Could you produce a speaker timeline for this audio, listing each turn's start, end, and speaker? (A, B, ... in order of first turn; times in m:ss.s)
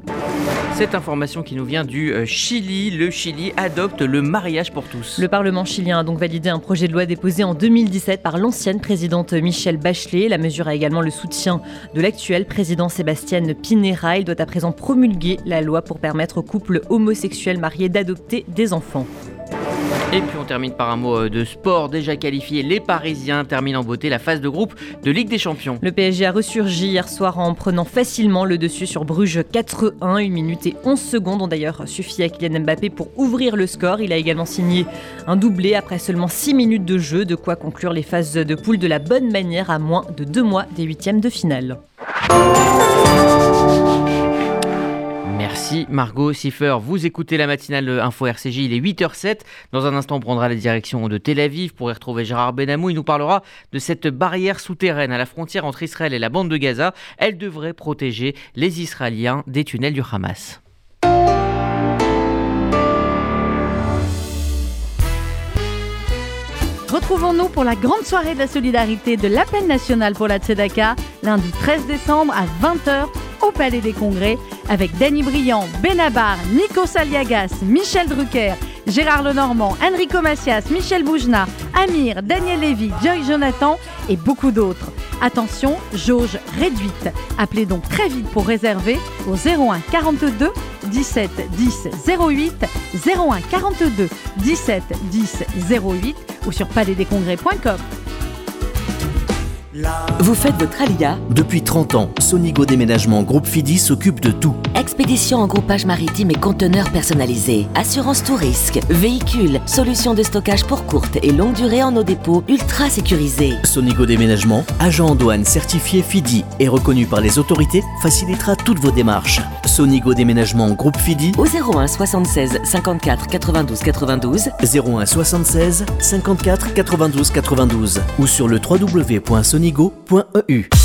0:00.7-0:05.2 A
0:05.2-0:19.1 B
0:20.1-0:25.8 A
0:25.8-0:41.8 B
0:45.3-1:00.6 A
1:06.9-1:37.8 C
1:40.2-1:41.2 D
1:41.3-1:44.6 E
1:44.7-1:53.6 D
1:53.6-2:01.4 E
2:01.4-2:04.5 D
2:04.6-2:10.7 E